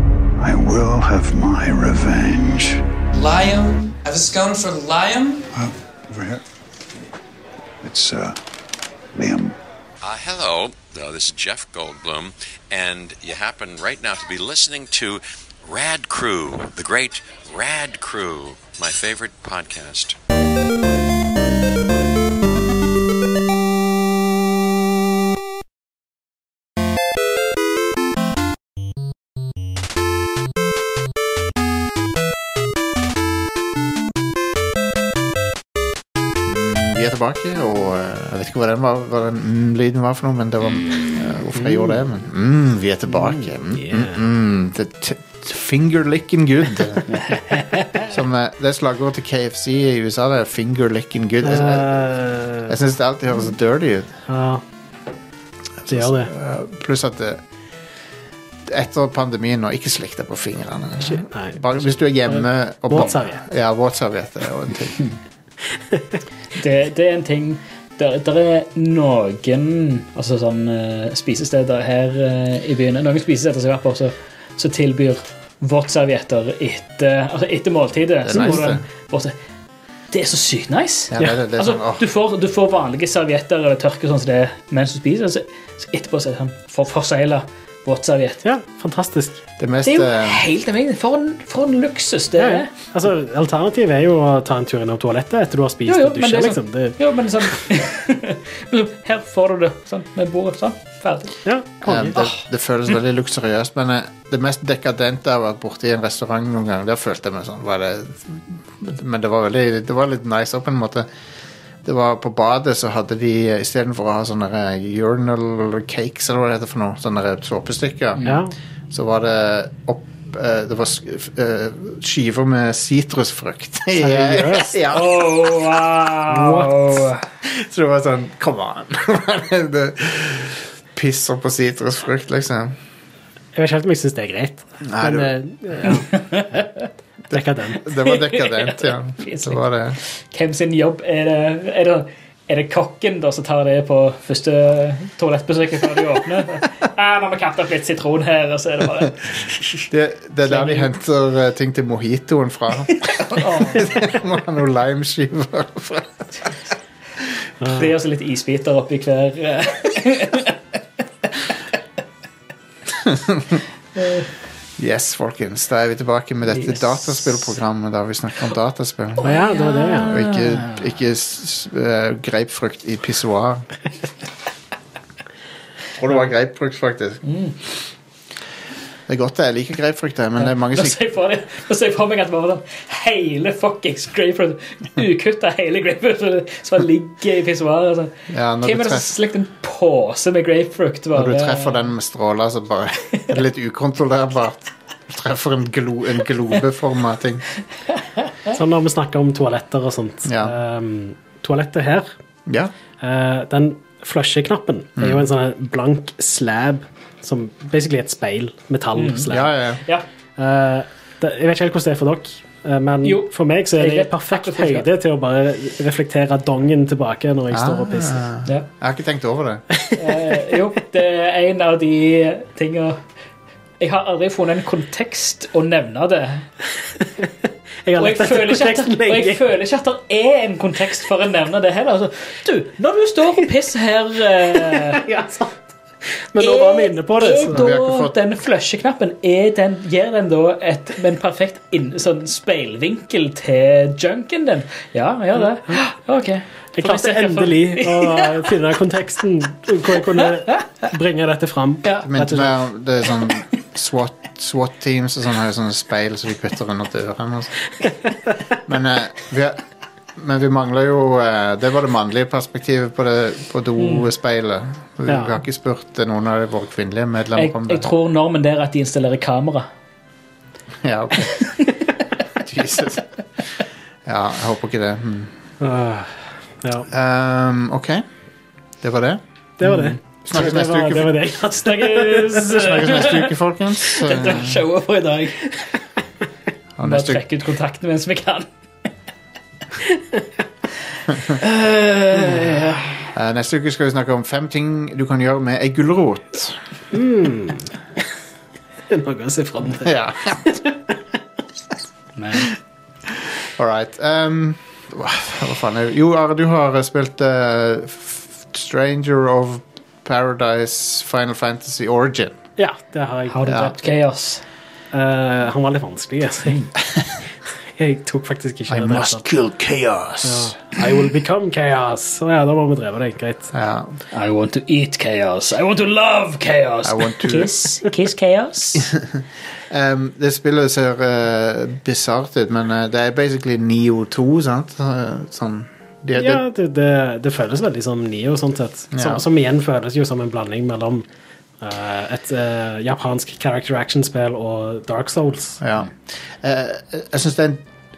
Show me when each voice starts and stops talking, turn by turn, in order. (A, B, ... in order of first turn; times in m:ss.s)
0:00.4-0:02.8 A
0:03.1-0:05.4 B
0:05.5-0:06.4 A
0:07.8-0:08.4 A
0:09.1-0:09.6 A
0:10.0-0:20.2 C
0:36.4-0:47.2 D
0:41.6-0:42.0 E
0:43.1-0:44.2 E
0:47.2-0:48.0 F
0:48.1-0:52.0 D
0:51.4-0:52.8 E
0:52.7-0:54.2 D
0:54.3-0:54.6 E
0:55.8-0:57.4 D
0:55.9-0:56.3 E
0:58.6-1:05.0 D
1:01.0-1:03.4 E
1:06.6-1:19.3 F
1:18.2-1:18.8 D
1:18.3-1:18.6 E
1:20.1-1:28.4 F
1:21.1-1:22.0 D
1:28.4-1:29.4 E
1:29.6-1:30.4 D
1:29.8-1:32.7 F
1:32.4-1:37.0 E
1:35.9-1:41.4 F
1:41.4-1:42.2 E
1:41.8-1:51.1 D
1:51.8-1:58.2 D
1:58.2-1:58.5 E
1:58.9-2:05.1 D
2:04.0-2:04.7 E
2:04.9-2:07.2 F
2:06.3-2:06.8 E
2:07.4-2:12.8 D
2:13.5-2:16.1 E
2:14.8-2:15.3 D
2:15.8-2:16.9 F
2:17.3-2:17.8 E
2:17.3-2:20.0 D
2:17.9-2:29.8 F
2:29.9-2:36.5 D
2:30.5-2:30.9 F
2:33.0-2:33.9 F
2:37.6-2:37.9 E
2:37.7-2:40.6 F
2:42.9-2:43.6 D
2:44.0-2:44.3 F
2:44.8-2:49.3 D
2:46.5-2:47.2 F
2:49.2-2:50.2 E
2:49.2-2:50.8 F
2:50.1-2:53.7 D
2:56.0-2:57.2 D
2:57.2-2:57.5 F
2:59.1-3:01.0 D
3:00.4-3:11.8 F
3:08.3-3:09.2 D
3:11.1-3:17.4 D
3:18.5-3:22.1 E
3:20.2-3:20.6 D
3:22.5-3:22.7 D
3:23.0-3:29.5 E
3:25.0-3:25.2 D
3:29.0-3:29.3 F
3:29.3-3:29.8 D
3:30.4-3:38.2 E
3:33.0-3:34.9 F
3:37.5-3:39.6 D
3:39.8-3:40.4 E
3:40.0-3:43.0 F
3:43.8-3:46.5 F
3:47.8-3:49.4 E
3:48.0-3:55.0 F
3:54.5-3:55.5 E
3:56.3-3:57.7 E
3:56.4-4:08.5 F
3:57.5-3:58.1 D
4:06.7-4:12.5 E
4:12.0-4:17.5 D
4:18.7-4:19.6 D
4:20.2-4:27.9 D
4:23.8-4:24.0 F
4:25.1-4:25.3 E
4:27.4-4:29.7 F
4:30.8-4:31.5 D
4:31.4-4:31.7 F
4:32.4-4:33.2 D
4:34.0-4:35.3 D
4:35.6-4:36.9 E
4:36.9-4:38.0 D
4:38.8-4:41.2 D
4:39.6-4:42.8 E
4:41.4-4:43.3 F
4:42.6-4:44.6 D
4:43.8-4:45.6 F
4:46.8-4:47.2 D
4:46.8-4:48.5 F
4:51.3-4:53.1 F
4:53.1-4:56.6 D
4:56.9-4:58.0 E
4:58.9-5:00.8 E
4:59.8-5:00.6 D
5:02.2-5:02.5 F
5:03.2-5:12.4 D
5:12.6-5:13.7 E
5:13.3-5:14.4 F
5:14.9-5:16.7 E
5:17.8-5:19.2 E
5:18.7-5:20.6 D
5:20.2-5:23.5 E
5:23.5-5:24.0 D
5:24.1-5:28.9 F
5:26.8-5:27.5 D
5:28.7-5:36.4 D
5:36.2-5:41.0 E
5:38.9-5:39.2 D
5:41.6-5:45.6 E
5:45.6-5:47.6 D